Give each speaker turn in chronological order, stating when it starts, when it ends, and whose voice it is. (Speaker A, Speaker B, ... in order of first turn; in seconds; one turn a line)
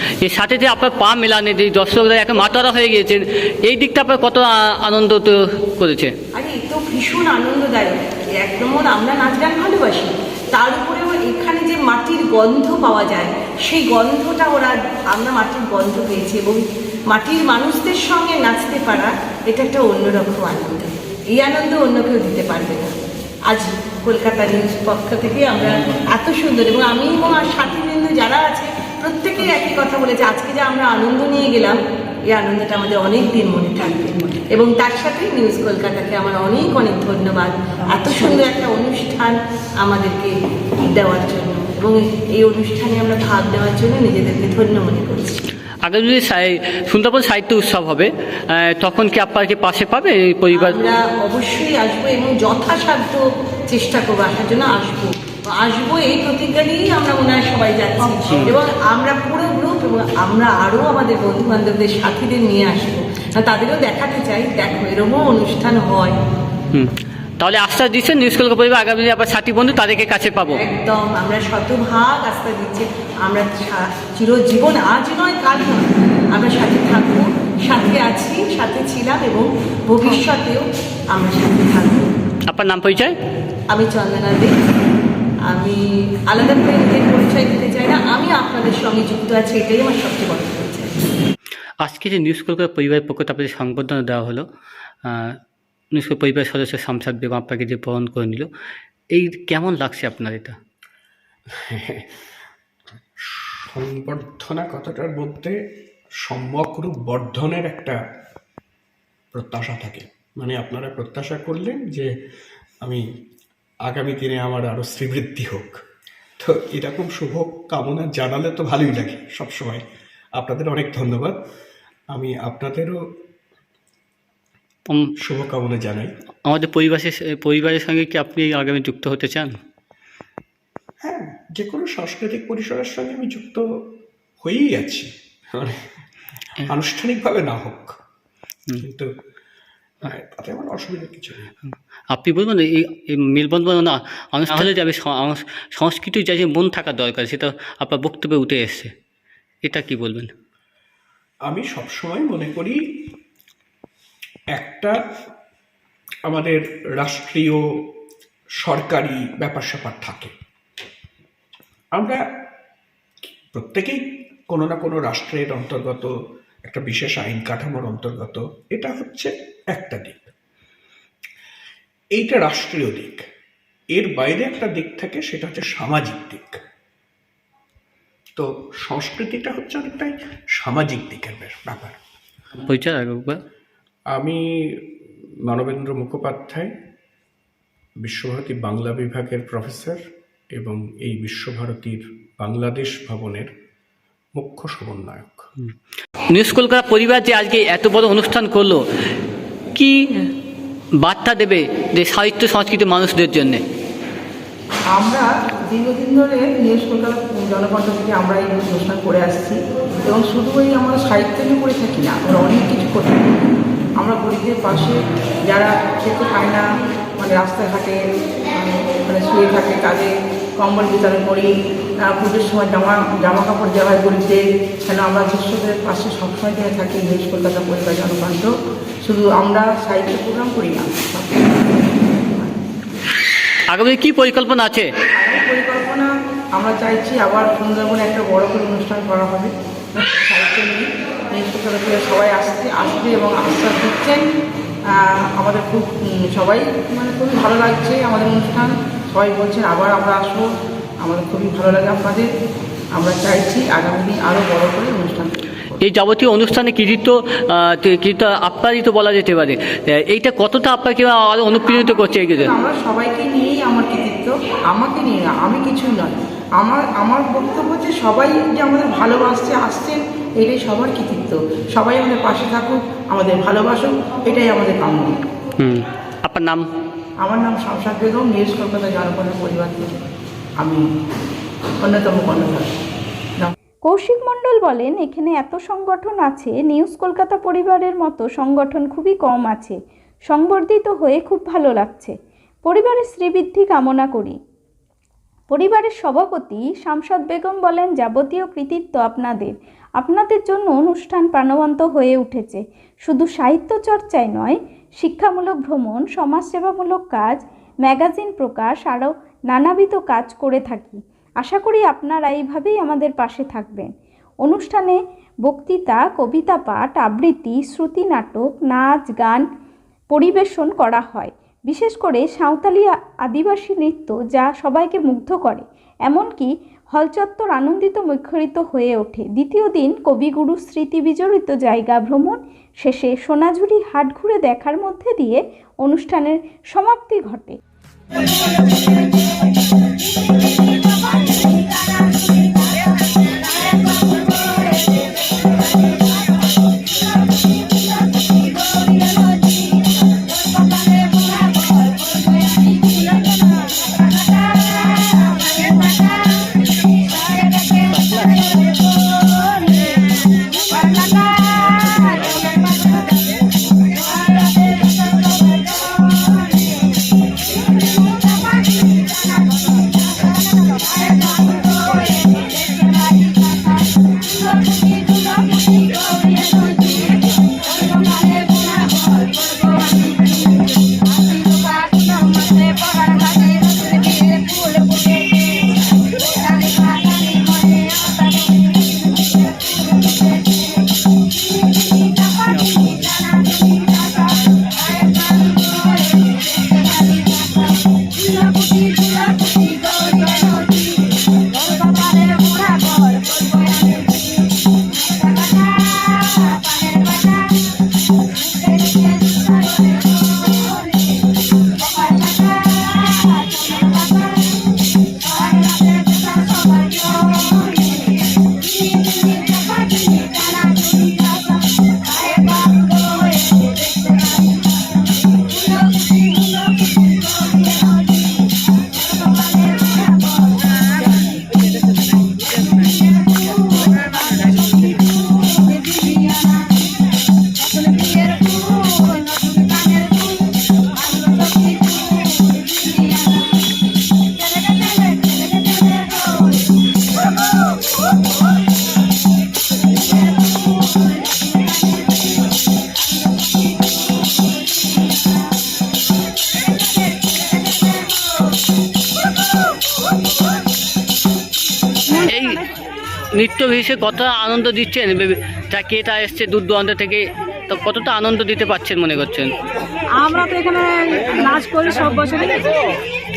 Speaker A: 0.2-6.1
Speaker B: 6.3-22.9
Speaker B: 23.5-31.8
Speaker B: 32.3-34.0
Speaker B: 34.5-40.3
Speaker B: 40.9-45.4
Speaker A: 45.8-50.8
Speaker B: 50.5-66.2
Speaker A: 58.3-58.6
Speaker A: 66.7-70.6
Speaker B: 70.5-82.1
Speaker A: 82.5-83.1
Speaker B: 83.7-84.5
Speaker B: 85.5-90.9
Speaker A: 91.8-94.5
Speaker A: 95.0-95.4
Speaker A: 95.9-98.5
Speaker A: 99.2-100.6
Speaker C: 101.7-102.0
Speaker C: 103.3-105.6
Speaker C: 106.2-108.0
Speaker C: 109.3-112.1
Speaker C: 113.9-115.8
Speaker C: 116.4-119.8
Speaker C: 120.4-121.3
Speaker C: 122.1-123.0
Speaker A: 124.9-125.1
Speaker C: 125.2-126.1
Speaker A: 126.5-129.6
Speaker C: 131.0-133.6
Speaker C: 134.4-135.8
Speaker C: 136.7-137.9
Speaker C: 138.8-139.1
Speaker C: 140.0-141.5
Speaker A: 142.1-148.9
Speaker A: 149.6-150.3
Speaker C: 151.5-152.8
Speaker C: 154.5-155.0
Speaker C: 156.3-157.6
Speaker C: 158.6-160.3
Speaker C: 163.5-166.1
Speaker C: 166.7-170.3
Speaker C: 172.2-173.2
Speaker C: 173.9-176.6
Speaker C: 178.3-182.0
Speaker A: 182.6-183.4
Speaker C: 185.5-186.7
Speaker C: 188.0-190.0
Speaker C: 190.6-193.5
Speaker C: 194.4-195.5
Speaker A: 196.3-198.8
Speaker A: 199.7-200.3
Speaker A: 201.0-203.6
Speaker D: 204.9-213.3
Speaker D: 214.0-216.6
Speaker D: 217.2-218.0
Speaker D: 218.5-221.5
Speaker D: 222.0-228.5
Speaker D: 229.1-231.6
Speaker A: 233.7-234.9
Speaker D: 235.2-244.2
Speaker D: 244.9-250.5
Speaker D: 251.0-252.3
Speaker D: 253.0-255.8
Speaker A: 255.8-262.5
Speaker D: 261.6-275.1
Speaker A: 275.6-276.6
Speaker D: 277.2-280.0
Speaker D: 281.8-282.7
Speaker E: 283.9-289.8
Speaker E: 290.3-292.1
Speaker E: 292.6-294.4
Speaker E: 295.5-313.9
Speaker E: 314.4-319.4
Speaker E: 320.1-337.6
Speaker A: 357.9-358.5
Speaker A: 361.6-362.6
Speaker A: 392.5-393.0
Speaker A: 462.2-462.6
Speaker A: 463.3-469.5
Speaker F: 470.2-472.7